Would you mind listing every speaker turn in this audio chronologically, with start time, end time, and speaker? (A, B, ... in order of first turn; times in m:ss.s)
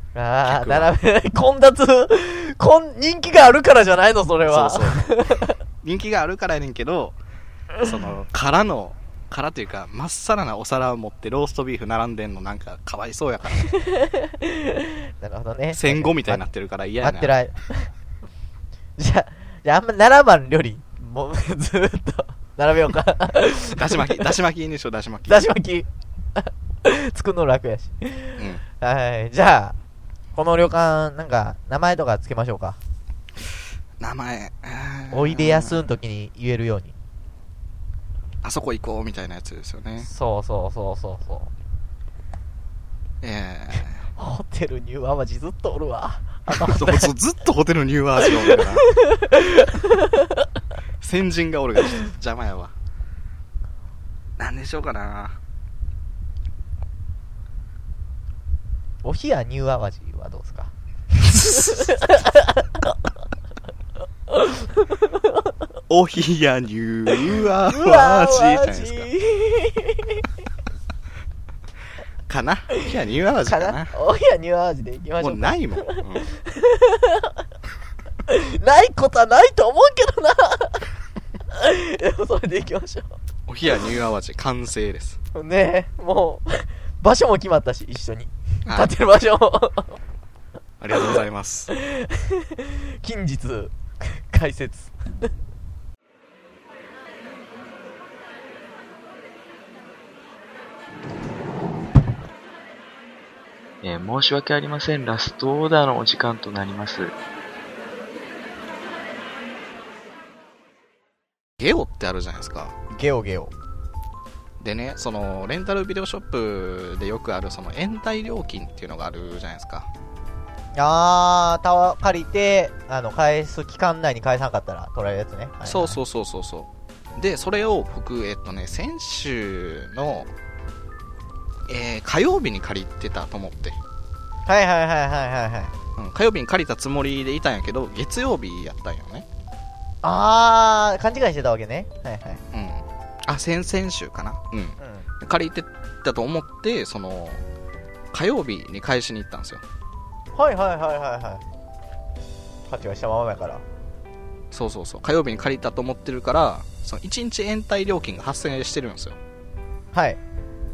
0:00.2-0:05.6 A
0:00.5-0:00.9 B
0:04.5-0:07.2 B
0:07.8-0:13.6 B
0:13.7-0:16.4 A
0:15.7-0:17.3 B
0:17.0-0:17.9 A
0:19.0-0:24.3 A
0:23.8-0:25.5 B
0:25.3-0:29.8 A
0:30.4-0:32.8 A
0:34.0-0:35.8 B
0:35.1-0:37.0 A
0:38.4-0:40.1 B
0:40.0-0:41.5 A
0:43.2-0:44.1 B
0:44.2-0:47.1 A
0:46.5-0:48.8 B
0:48.2-0:50.5 A
0:51.0-0:52.7 B
0:54.4-0:55.4 B
0:59.0-1:00.7 A
1:01.2-1:02.9 A
1:04.3-1:05.5 A
1:05.9-1:09.1 B
1:07.7-1:10.2 A
1:12.3-1:13.9 B
1:13.5-1:17.4 A
1:15.2-1:16.3 B
1:18.3-1:20.9 A
1:21.5-1:23.1 A
1:23.5-1:25.2 B
1:25.3-1:30.0 A
1:28.7-1:28.9 B
1:30.8-1:31.7 B
1:31.7-1:34.9 A
1:43.8-1:47.1 C
1:51.6-1:52.8 B
1:52.9-1:53.5 A
1:54.6-1:59.9 B
2:00.8-2:06.0 A
2:05.7-2:10.3 B
2:11.7-2:13.8 B
2:14.5-2:15.7 A
2:16.0-2:19.3 B
2:20.0-2:22.4 A
2:22.5-2:27.4 B
2:24.8-2:25.1 A
2:28.1-2:29.6 B
2:30.4-2:31.4 A
2:32.7-2:33.6 A
2:34.5-2:39.2 B
2:39.9-2:40.2 A